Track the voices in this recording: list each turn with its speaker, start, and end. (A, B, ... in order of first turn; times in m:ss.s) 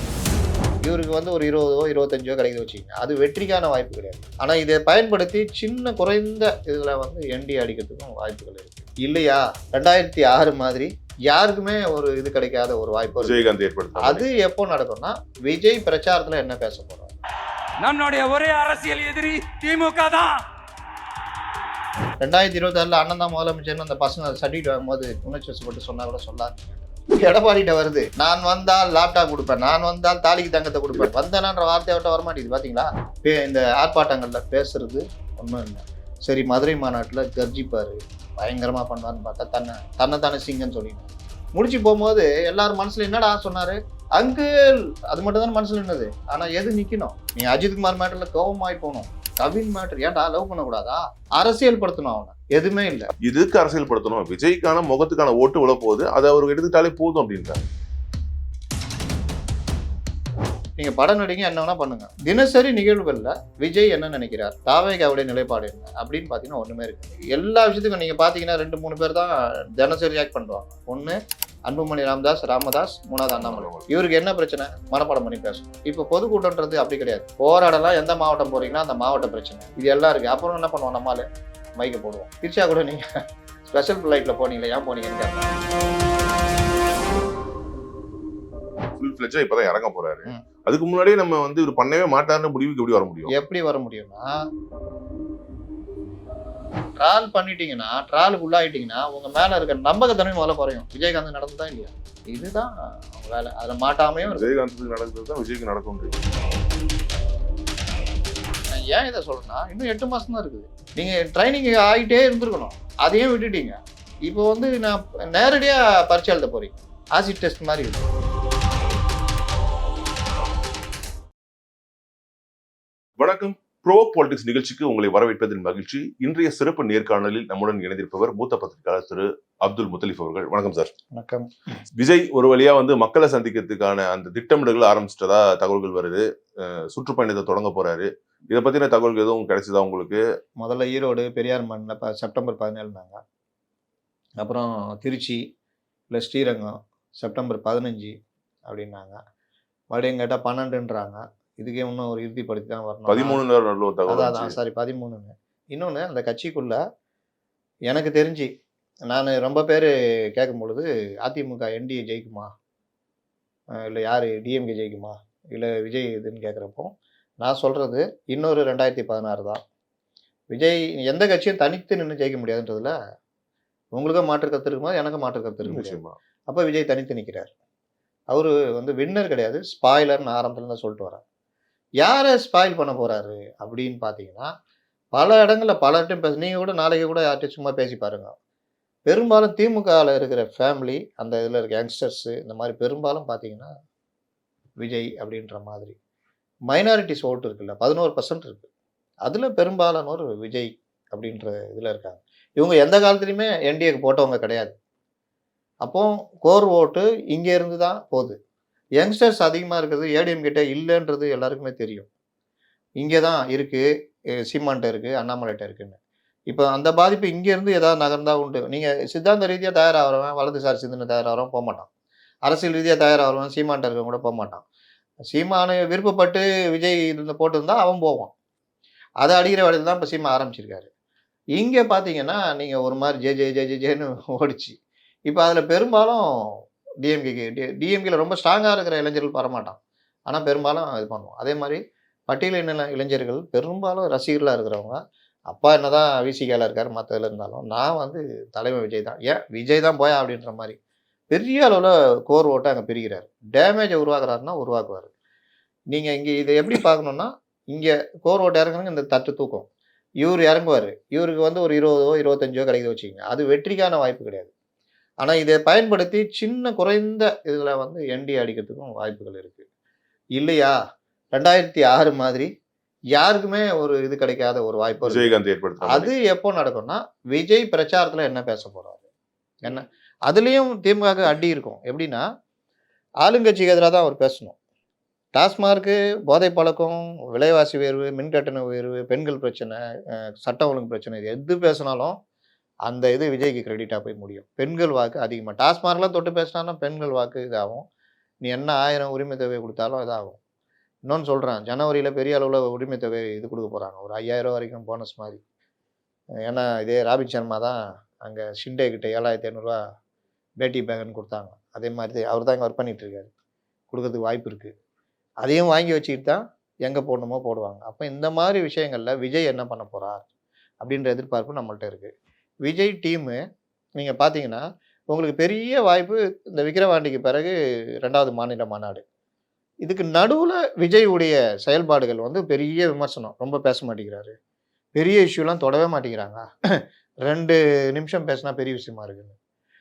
0:00.8-0:17.1 A
0:13.2-0:14.2 B
0:17.8-0:20.4 C
0:22.2-0:53.1 A
0:53.2-0:57.6 B
1:00.8-1:21.3 A
1:13.3-1:13.9 B
1:21.8-1:23.0 A
1:23.6-1:25.6 A
1:29.0-1:33.3 B
1:33.3-1:34.3 A
1:37.0-1:44.5 A
1:44.2-1:46.2 B
1:48.7-1:53.8 A
1:54.3-1:58.1 A
2:03.2-2:10.9 B
2:11.1-2:11.5 A
2:12.0-2:20.2 B
2:20.6-2:23.2 A
2:24.4-2:25.4 A
2:26.1-2:28.1 A
2:28.7-2:29.2 A
2:29.9-2:33.4 A
2:33.1-2:34.6 B
2:34.1-2:36.8 A
2:37.9-2:38.5 A
2:39.1-2:42.5 A
2:43.8-2:49.6 A
2:50.5-2:53.0 A
2:53.9-2:57.5 A
2:55.6-2:56.2 B
2:58.3-3:01.2 A
3:02.0-3:04.5 A
3:05.1-3:08.3 A
3:09.1-3:13.7 A
3:14.8-3:16.0 A
3:16.7-3:18.7 A
3:19.2-3:24.8 A
3:25.8-3:28.4 A
3:29.0-3:32.1 A
3:33.0-3:33.8 A
3:34.5-3:41.9 A
3:42.5-3:44.6 A
3:45.3-3:48.3 A
3:49.2-3:50.9 A
3:51.6-3:54.8 A
3:55.3-4:05.0 A
4:05.5-4:10.8 A
4:11.3-4:15.1 A
4:15.9-4:19.7 A
4:20.2-4:24.5 A
4:25.2-4:29.6 A
4:30.4-4:30.8 A
4:31.3-4:32.5 A
4:33.1-4:35.3 A
4:35.1-4:36.1 B
4:35.8-4:39.0 A
4:39.6-4:42.2 A
4:43.2-4:44.6 A
4:45.3-4:52.2 A
4:52.9-4:57.9 A
4:58.4-5:00.4 A
5:01.1-5:05.4 A
5:06.5-5:09.8 A
5:10.6-5:13.3 A
5:13.9-5:14.7 A
5:15.4-5:20.3 A
5:20.8-5:22.1 A
5:22.6-5:23.4 A
5:24.0-5:29.0 A
5:29.8-5:34.4 A
5:34.9-5:39.4 A